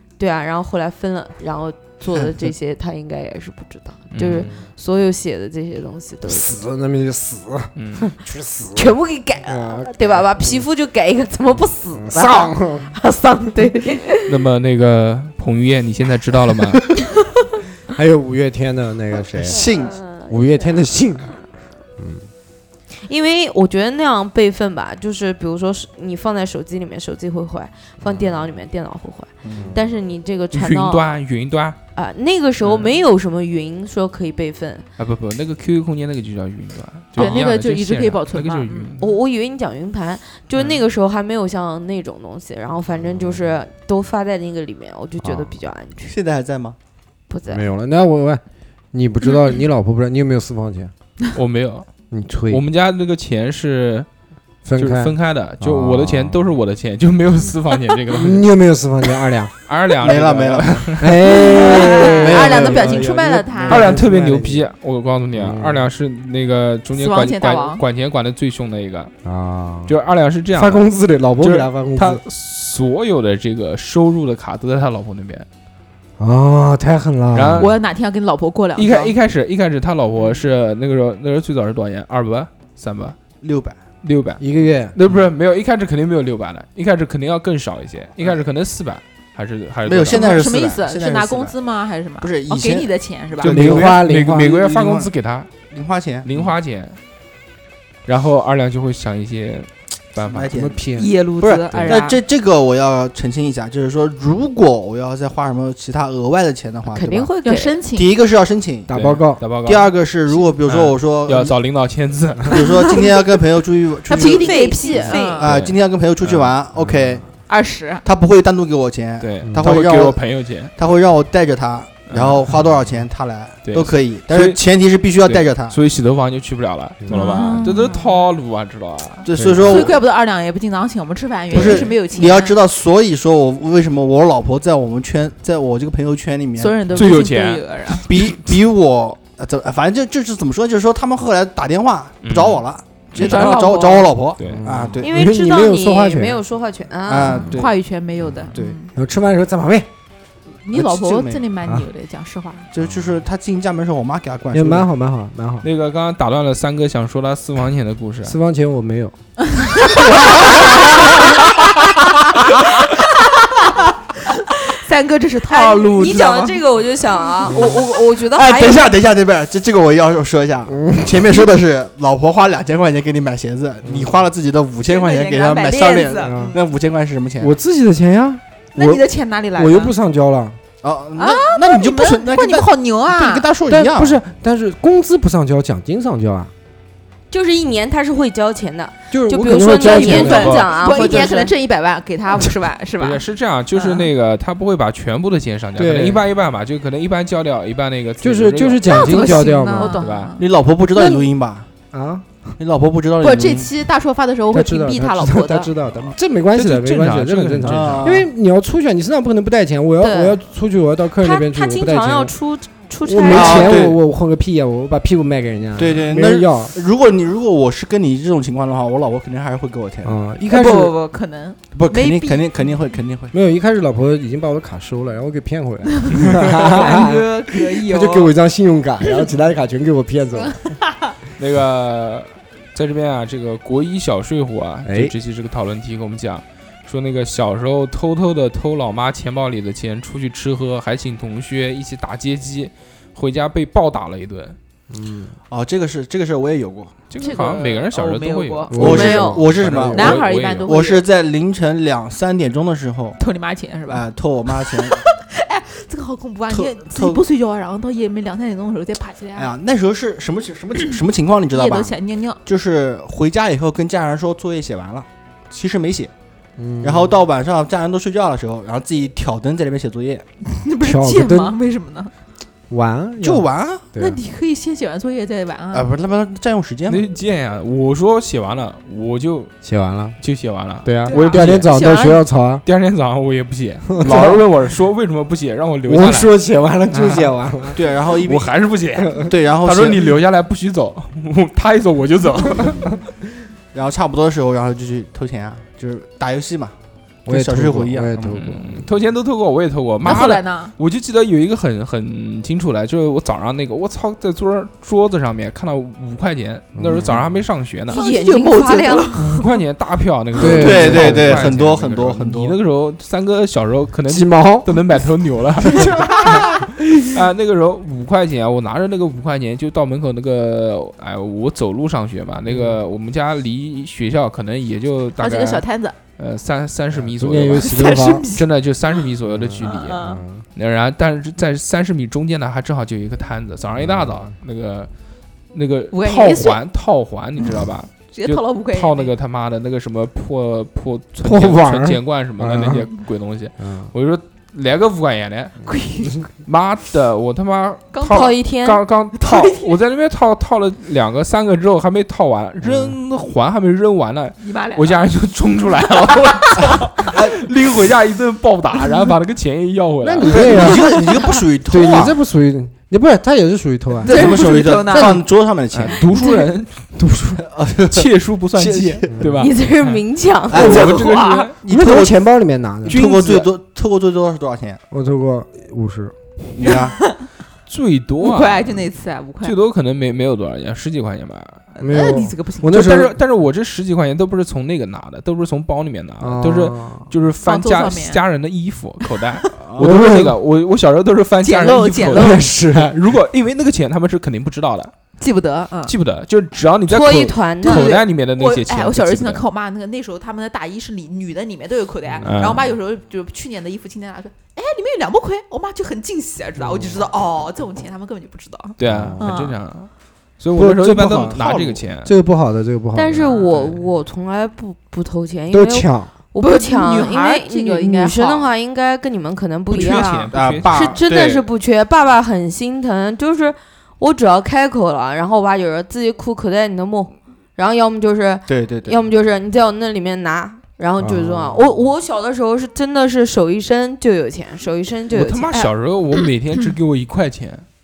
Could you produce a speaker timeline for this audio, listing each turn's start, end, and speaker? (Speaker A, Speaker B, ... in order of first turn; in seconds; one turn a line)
Speaker A: 0.2-6.5
Speaker B: 4.1-4.5
Speaker C: 4.3-4.6
Speaker C: 6.2-10.6
Speaker B: 7.8-8.1
Speaker A: 8.7-14.4
Speaker C: 11.9-12.9
Speaker B: 14.3-16.8
Speaker C: 17.9-19.7
Speaker D: 19.4-20.0
Speaker A: 19.5-20.8
Speaker C: 20.3-21.4
Speaker C: 22.0-22.3
Speaker A: 22.9-31.1
Speaker D: 29.4-29.8
Speaker C: 29.5-29.8
Speaker B: 30.5-31.8
Speaker A: 31.9-34.9
Speaker B: 32.6-32.9
Speaker B: 35.0-39.1
Speaker E: 37.1-38.9
Speaker A: 39.0-46.1
Speaker C: 43.0-43.6
Speaker C: 45.2-45.5
Speaker D: 46.0-46.8
Speaker A: 47.3-47.6
Speaker C: 47.5-50.9
Speaker B: 51.3-51.9
Speaker C: 52.1-52.6
Speaker B: 52.5-54.1
Speaker C: 54.6-56.5
Speaker B: 54.8-58.4
Speaker C: 58.1-59.5
Speaker B: 59.7-61.2
Speaker D: 60.0-61.0
Speaker C: 61.0-64.6
Speaker E: 61.2-63.9
Speaker D: 61.9-62.9
Speaker B: 63.7-69.1
Speaker C: 65.3-65.9
Speaker E: 66.9-67.8
Speaker C: 69.2-69.9
Speaker B: 69.9-70.8
Speaker C: 70.5-72.2
Speaker B: 71.4-75.5
Speaker C: 76.2-77.7
Speaker B: 77.3-77.7
Speaker E: 77.6-79.1
Speaker B: 78.7-83.2
Speaker D: 83.4-83.8
Speaker B: 84.0-90.3
Speaker C: 84.4-85.0
Speaker D: 89.8-91.5
Speaker E: 90.1-93.7
Speaker D: 92.2-95.1
Speaker C: 93.4-94.5
Speaker B: 93.4-95.5
Speaker D: 95.7-96.3
Speaker B: 96.2-97.0
Speaker B: 98.1-100.5
Speaker D: 100.2-107.3
Speaker C: 100.5-101.1
Speaker E: 100.9-102.2
Speaker C: 101.7-102.0
Speaker A: 106.9-107.8
Speaker E: 107.4-108.1
Speaker D: 107.9-108.9
Speaker C: 108.9-109.4
Speaker B: 108.9-109.9
Speaker D: 109.6-111.5
Speaker B: 110.7-112.5
Speaker D: 112.5-117.2
Speaker E: 112.8-113.1
Speaker E: 114.1-115.5
Speaker A: 114.1-115.5
Speaker B: 115.5-116.5
Speaker C: 116.7-117.2
Speaker E: 117.5-118.0
Speaker D: 118.0-120.2
Speaker B: 119.2-120.7
Speaker C: 119.4-119.7
Speaker D: 120.8-125.8
Speaker B: 122.1-122.4
Speaker B: 123.6-124.6
Speaker B: 125.2-129.2
Speaker C: 127.0-127.3
Speaker E: 127.1-128.1
Speaker D: 129.2-130.0
Speaker C: 129.3-129.8
Speaker E: 129.6-132.6
Speaker D: 131.5-137.2
Speaker E: 136.6-138.1
Speaker B: 136.9-138.0
Speaker D: 138.0-145.1
Speaker B: 142.2-142.6
Speaker E: 143.1-144.1
Speaker B: 143.2-143.5
Speaker B: 144.4-144.6
Speaker C: 144.4-146.4
Speaker A: 145.0-147.5
Speaker D: 147.1-147.8
Speaker E: 147.4-148.9
Speaker C: 148.3-149.9
Speaker D: 148.5-148.8
Speaker E: 150.7-152.7
Speaker D: 150.7-151.4
Speaker C: 151.6-151.9
Speaker D: 152.7-154.9
Speaker C: 152.8-153.2
Speaker C: 154.5-155.7
Speaker B: 155.6-158.3
Speaker C: 158.2-159.1
Speaker E: 159.6-161.2
Speaker E: 162.4-162.9
Speaker E: 163.4-163.7
Speaker E: 164.3-166.6
Speaker A: 165.5-168.9
Speaker C: 167.4-167.8
Speaker D: 168.2-177.5
Speaker C: 170.7-171.3
Speaker C: 173.8-174.2
Speaker E: 174.8-176.6
Speaker C: 176.2-176.6
Speaker C: 177.4-180.6
Speaker E: 178.7-179.9
Speaker D: 180.8-184.2
Speaker E: 181.2-183.5
Speaker C: 183.7-186.5
Speaker A: 187.3-191.5
Speaker C: 189.1-190.7
Speaker E: 189.7-193.2
Speaker B: 190.1-190.6
Speaker B: 193.0-199.2
Speaker E: 193.7-194.1
Speaker C: 195.8-196.2
Speaker C: 198.2-199.9
Speaker E: 198.8-200.4
Speaker A: 199.1-200.1
Speaker B: 200.0-200.3
Speaker D: 200.4-201.7
Speaker A: 200.9-201.3
Speaker C: 201.9-202.3
Speaker D: 202.6-203.7
Speaker E: 203.2-205.7
Speaker C: 204.5-212.3
Speaker B: 206.5-208.2
Speaker D: 207.6-208.3
Speaker A: 210.0-210.4
Speaker A: 211.2-213.8
Speaker C: 213.0-216.7
Speaker D: 213.2-214.0
Speaker D: 215.8-220.2
Speaker C: 220.0-221.0
Speaker E: 220.5-222.7
Speaker D: 221.7-223.3
Speaker C: 223.3-230.6
Speaker E: 226.1-228.3
Speaker B: 231.4-244.6
Speaker C: 234.8-235.1
Speaker C: 244.9-245.3
Speaker D: 245.5-246.9
Speaker B: 247.1-248.8
Speaker E: 247.2-249.3
Speaker C: 248.7-250.1
Speaker D: 248.8-253.2
Speaker A: 248.8-249.4
Speaker B: 249.5-250.7
Speaker E: 249.9-251.0
Speaker E: 253.2-259.5
Speaker D: 253.9-255.0
Speaker D: 256.5-257.2
Speaker D: 259.4-266.1
Speaker E: 261.5-262.4
Speaker C: 266.6-267.2
Speaker D: 266.8-270.2
Speaker E: 270.5-272.1
Speaker C: 270.8-271.5
Speaker C: 272.7-274.2
Speaker D: 273.2-273.9
Speaker E: 273.9-275.9
Speaker D: 275.7-277.0
Speaker B: 276.9-279.5
Speaker C: 279.6-280.2
Speaker B: 280.2-281.7
Speaker C: 280.8-282.6
Speaker E: 281.1-282.2
Speaker B: 282.6-286.3
Speaker C: 283.9-284.4
Speaker C: 285.8-287.8
Speaker B: 286.9-287.3
Speaker D: 287.7-288.5
Speaker B: 288.2-292.9
Speaker C: 289.0-289.3
Speaker D: 289.2-290.2
Speaker D: 293.7-296.7
Speaker D: 297.2-298.4
Speaker C: 297.2-298.9
Speaker B: 298.3-308.0
Speaker E: 300.0-300.7
Speaker C: 306.7-307.4
Speaker A: 307.9-309.2
Speaker E: 307.9-309.4
Speaker B: 309.1-325.6
Speaker C: 310.4-311.5
Speaker D: 310.4-312.6
Speaker C: 314.1-314.8
Speaker C: 315.6-317.1
Speaker C: 322.5-322.8
Speaker E: 325.2-326.0
Speaker B: 326.2-327.8
Speaker C: 326.9-328.3
Speaker E: 327.5-328.4
Speaker B: 328.3-330.0
Speaker C: 329.2-330.4
Speaker E: 329.6-330.2
Speaker B: 330.5-334.9
Speaker C: 333.8-334.3
Speaker B: 335.5-345.5
Speaker E: 335.9-336.6
Speaker E: 338.1-339.1
Speaker C: 341.2-342.9
Speaker C: 343.6-343.9
Speaker E: 345.6-346.2
Speaker B: 346.4-360.7
Speaker E: 347.9-348.4
Speaker A: 348.1-348.8
Speaker E: 349.2-349.7
Speaker C: 352.6-353.0
Speaker E: 354.4-355.1
Speaker E: 356.0-356.6
Speaker C: 360.0-361.0
Speaker D: 360.3-362.2
Speaker C: 361.7-364.3
Speaker E: 364.0-365.2
Speaker D: 364.1-366.1
Speaker B: 365.7-366.9
Speaker C: 367.0-367.4
Speaker D: 367.4-369.3
Speaker B: 367.9-370.0
Speaker C: 369.1-369.4
Speaker A: 369.4-370.9
Speaker D: 370.5-372.2
Speaker B: 370.5-371.6
Speaker C: 371.6-373.0
Speaker D: 372.8-374.8
Speaker B: 372.9-373.4
Speaker C: 374.9-376.1
Speaker D: 376.6-376.9
Speaker E: 376.6-377.1
Speaker B: 377.7-378.8
Speaker E: 378.2-379.6
Speaker B: 379.4-381.6
Speaker E: 381.7-382.8
Speaker C: 381.8-383.2
Speaker B: 382.7-394.9
Speaker C: 386.2-387.1
Speaker E: 387.4-388.2
Speaker E: 389.0-389.4
Speaker D: 389.6-389.9
Speaker C: 389.8-390.4
Speaker E: 391.4-392.5
Speaker C: 392.1-393.0
Speaker E: 395.2-395.9
Speaker B: 395.9-399.4
Speaker A: 396.9-398.0
Speaker E: 397.6-409.6
Speaker C: 402.2-402.6
Speaker B: 402.2-402.6
Speaker B: 408.8-412.1
Speaker C: 408.8-409.3
Speaker C: 410.5-411.4
Speaker D: 411.0-411.8
Speaker C: 412.0-413.3
Speaker A: 412.9-435.7
Speaker B: 413.3-413.8
Speaker C: 415.5-416.1
Speaker E: 416.4-418.5
Speaker B: 419.7-421.0
Speaker E: 419.8-420.2
Speaker D: 419.8-421.4
Speaker D: 428.5-429.0
Speaker C: 431.0-431.8
Speaker B: 435.1-437.6